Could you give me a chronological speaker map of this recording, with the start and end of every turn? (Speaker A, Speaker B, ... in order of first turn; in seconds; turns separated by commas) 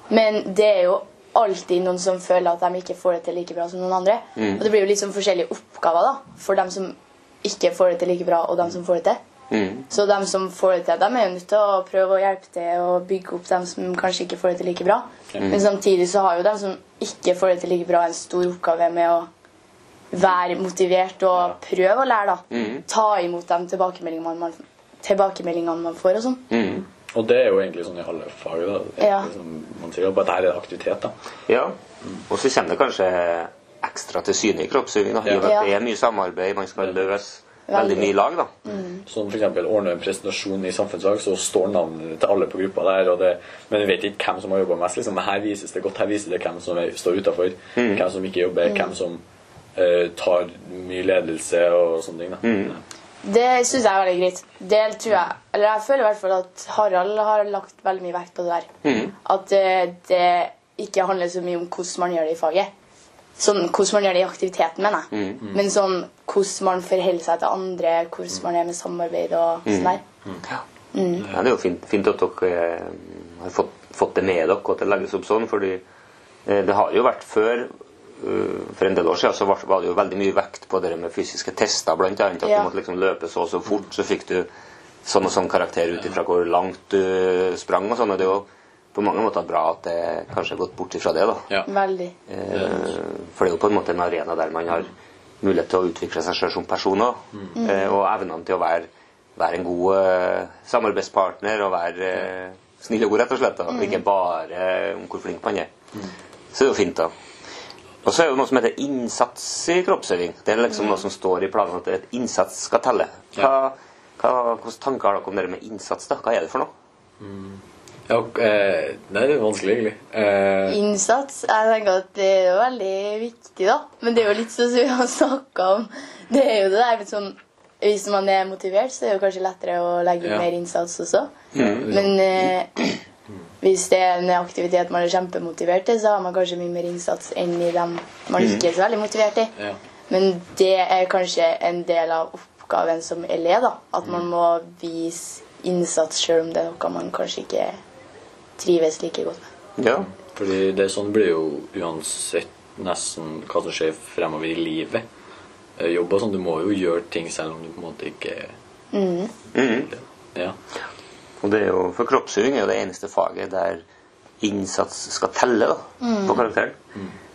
Speaker A: 0.1-9.2, Speaker B: 4.3-4.6, Speaker B: 9.5-9.8, Speaker A: 9.9-19.3, Speaker A: 20.1-26.4, Speaker B: 22.5-22.8, Speaker B: 26.5-26.8, Speaker C: 27.1-31.1, Speaker A: 29.0-29.3, Speaker B: 31.5-31.8, Speaker B: 32.3-38.6, Speaker C: 35.2-35.5, Speaker A: 35.4-35.7, Speaker A: 37.7-38.1, Speaker A: 38.7-39.0, Speaker C: 39.0-49.2, Speaker B: 47.8-48.0, Speaker C: 49.8-52.8, Speaker B: 52.4-52.7, Speaker A: 53.2-58.7, Speaker B: 58.8-59.1, Speaker A: 59.2-62.7, Speaker A: 63.4-70.0, Speaker B: 65.1-65.4, Speaker B: 69.7-70.0, Speaker A: 70.9-71.3, Speaker B: 71.2-75.8, Speaker B: 76.5-84.5, Speaker A: 82.4-82.7, Speaker B: 85.0-91.5, Speaker A: 91.7-92.2, Speaker B: 92.3-105.7, Speaker A: 97.6-97.9, Speaker A: 103.7-104.0, Speaker B: 106.5-107.1, Speaker B: 108.0-116.7, Speaker C: 117.2-120.8, Speaker A: 120.7-131.3, Speaker B: 131.5-131.8, Speaker C: 131.6-132.2, Speaker A: 131.9-132.7, Speaker A: 133.6-139.5, Speaker A: 140.1-147.8, Speaker A: 148.6-149.5, Speaker B: 149.8-150.1, Speaker C: 150.3-155.0, Speaker C: 155.8-158.5, Speaker A: 158.9-159.3, Speaker B: 159.5-159.9, Speaker B: 161.4-163.8, Speaker B: 164.4-166.8, Speaker A: 166.0-166.4